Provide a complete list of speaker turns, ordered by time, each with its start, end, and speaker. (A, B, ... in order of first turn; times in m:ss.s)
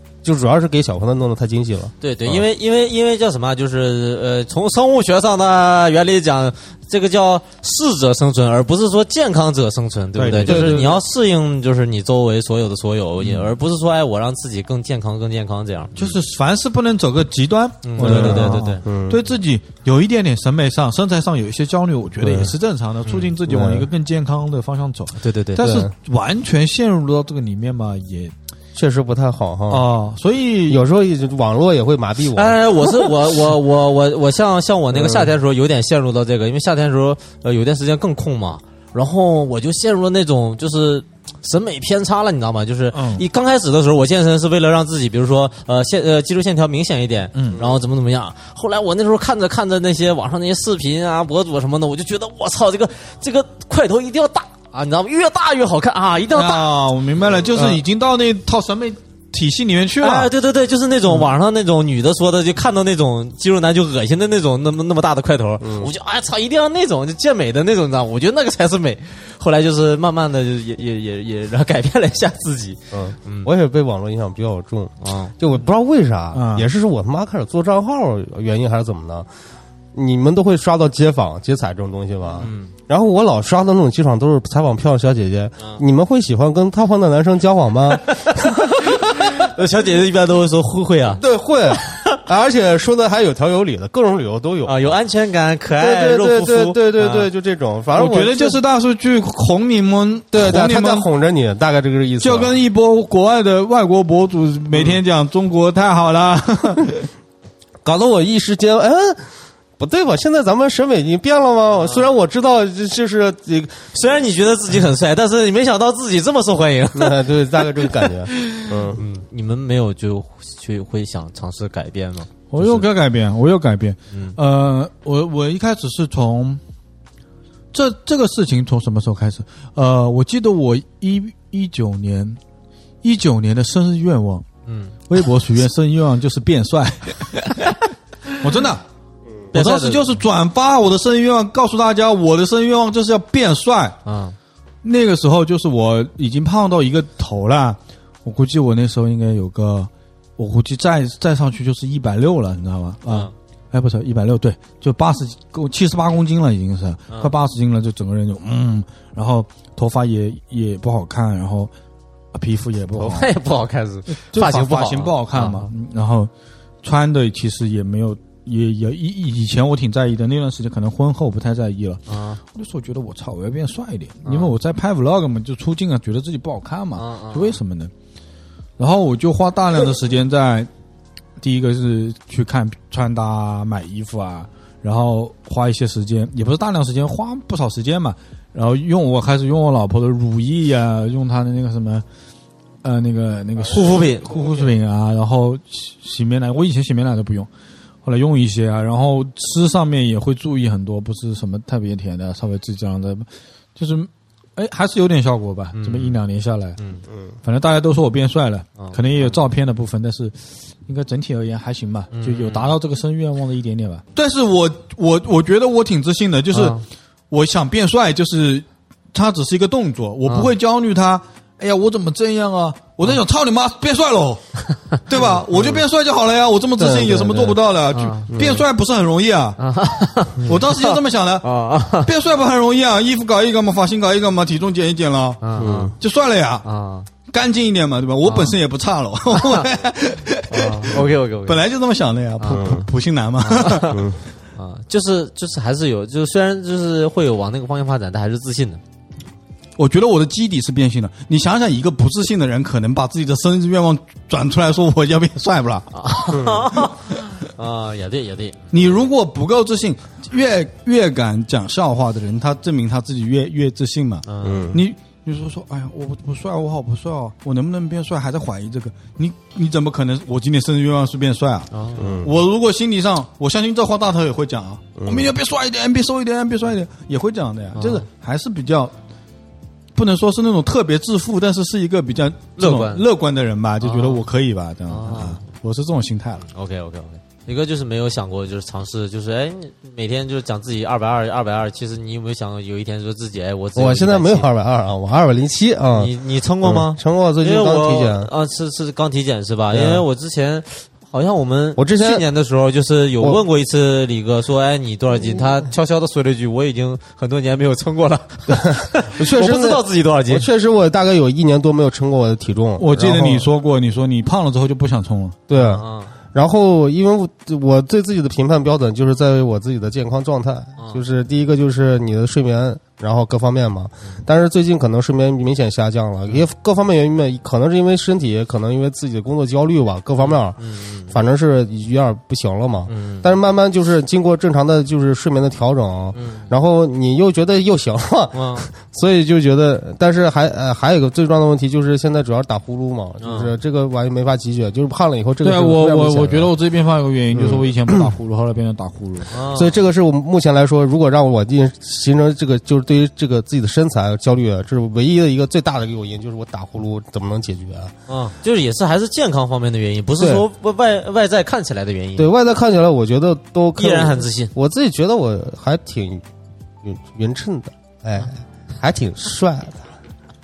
0:00.2-0:02.4 A
0:02.0-0:16.2 B
0:10.2-0:10.9 C
0:10.4-0:11.0 A
0:13.2-0:13.5 C
0:16.0-0:28.3 C
0:17.8-0:18.8 B
0:18.0-0:19.2 A
0:22.2-0:22.5 A
0:23.1-0:23.3 B
0:23.5-0:23.9 A
0:25.2-0:25.6 B
0:25.6-0:25.9 A
0:28.8-0:29.9 A
0:29.7-0:30.8 C
0:30.7-0:32.9 A
0:32.3-0:56.7 B
0:34.9-0:35.3 A
0:42.9-0:43.2 C
0:47.3-0:47.6 C
0:47.5-0:47.8 A
0:56.3-1:00.3 C
0:57.6-0:57.8 A
1:00.0-1:13.5 B
1:05.6-1:05.9 A
1:12.9-1:19.3 A
1:15.0-1:15.3 B
1:16.3-1:16.7 C
1:19.9-1:29.1 A
1:22.4-1:22.7 B
1:28.1-1:31.2 B
1:31.2-1:34.8 A
1:31.8-1:32.2 B
1:34.6-1:36.8 B
1:35.8-1:38.6 A
1:37.0-1:37.3 C
1:37.9-1:41.1 C
1:40.3-1:42.5 A
1:42.2-1:47.1 C
1:47.8-1:53.9 A
1:51.8-1:52.0 B
1:53.9-1:57.3 B
1:57.0-1:59.0 A
1:57.9-2:02.9 B
2:02.5-2:06.6 C
2:04.1-2:04.4 B
2:07.7-2:12.4 C
2:13.0-2:14.4 C
2:14.7-2:15.0 B
2:15.1-2:18.8 C
2:19.5-2:20.2 B
2:19.5-2:24.0 C
2:24.0-2:24.4 B
2:24.8-2:41.7 C
2:33.1-2:33.3 B
2:42.3-2:43.3 C
2:43.0-2:45.7 B
2:44.1-2:46.3 C
2:46.8-2:57.9 C
2:52.1-2:52.4 B
2:54.2-2:54.5 B
2:57.0-2:57.6 B
2:58.8-3:00.7 C
3:01.4-3:12.0 C
3:12.8-3:17.5 C
3:13.6-3:14.3 B
3:18.0-3:26.8 C
3:25.7-3:26.2 B
3:26.8-3:27.0 B
3:27.1-3:27.4 A
3:27.4-3:36.8 C
3:28.8-3:29.4 B
3:32.1-3:32.8 B
3:36.5-3:36.8 B
3:37.3-3:49.6 C
3:40.3-3:40.5 B
3:45.2-3:45.4 B
3:45.6-3:45.8 A
3:46.8-3:47.6 A
3:47.9-3:48.3 B
3:48.3-3:48.6 A
3:49.6-3:52.1 B
3:50.4-3:51.5 C
3:52.0-3:55.4 C
3:55.4-3:55.9 B
3:55.6-3:55.9 A
3:56.0-3:56.6 C
3:56.6-3:57.1 B
3:57.3-4:04.0 C
3:58.2-3:58.6 B
3:59.3-3:59.7 B
4:00.5-4:01.6 B
4:02.4-4:02.7 B
4:02.5-4:02.9 A
4:03.4-4:04.0 B
4:03.9-4:04.2 A
4:04.6-4:08.8 B
4:09.8-4:15.9 C
4:15.9-4:18.9 B
4:16.3-4:16.7 A
4:18.7-4:31.7 C
4:24.3-4:24.7 B
4:24.4-4:24.8 A
4:31.7-4:32.2 B
4:32.0-4:32.4 A
4:32.2-4:38.9 C
4:35.0-4:35.3 A
4:37.8-4:38.0 B
4:40.0-4:46.4 C
4:42.6-4:43.0 B
4:43.8-4:44.2 B
4:44.9-4:45.4 B
4:46.4-4:54.5 B
4:53.8-4:58.3 A
4:56.0-5:10.5 B
4:59.7-5:00.0 A
5:01.8-5:02.3 A
5:08.5-5:13.5 A
5:12.8-5:15.4 C
5:15.5-5:46.5 A
5:15.5-5:16.1 B
5:30.2-5:31.2 B
5:32.9-5:33.3 B
5:36.1-5:36.5 B
5:38.3-5:38.7 B
5:43.2-5:43.5 B
5:45.4-5:49.3 C
5:47.3-5:48.1 A
5:49.3-5:49.8 B
5:49.5-5:57.9 A
5:58.1-6:02.3 B
6:00.2-6:00.4 A
6:02.2-6:06.2 A
6:03.8-6:04.5 B
6:06.8-6:09.9 A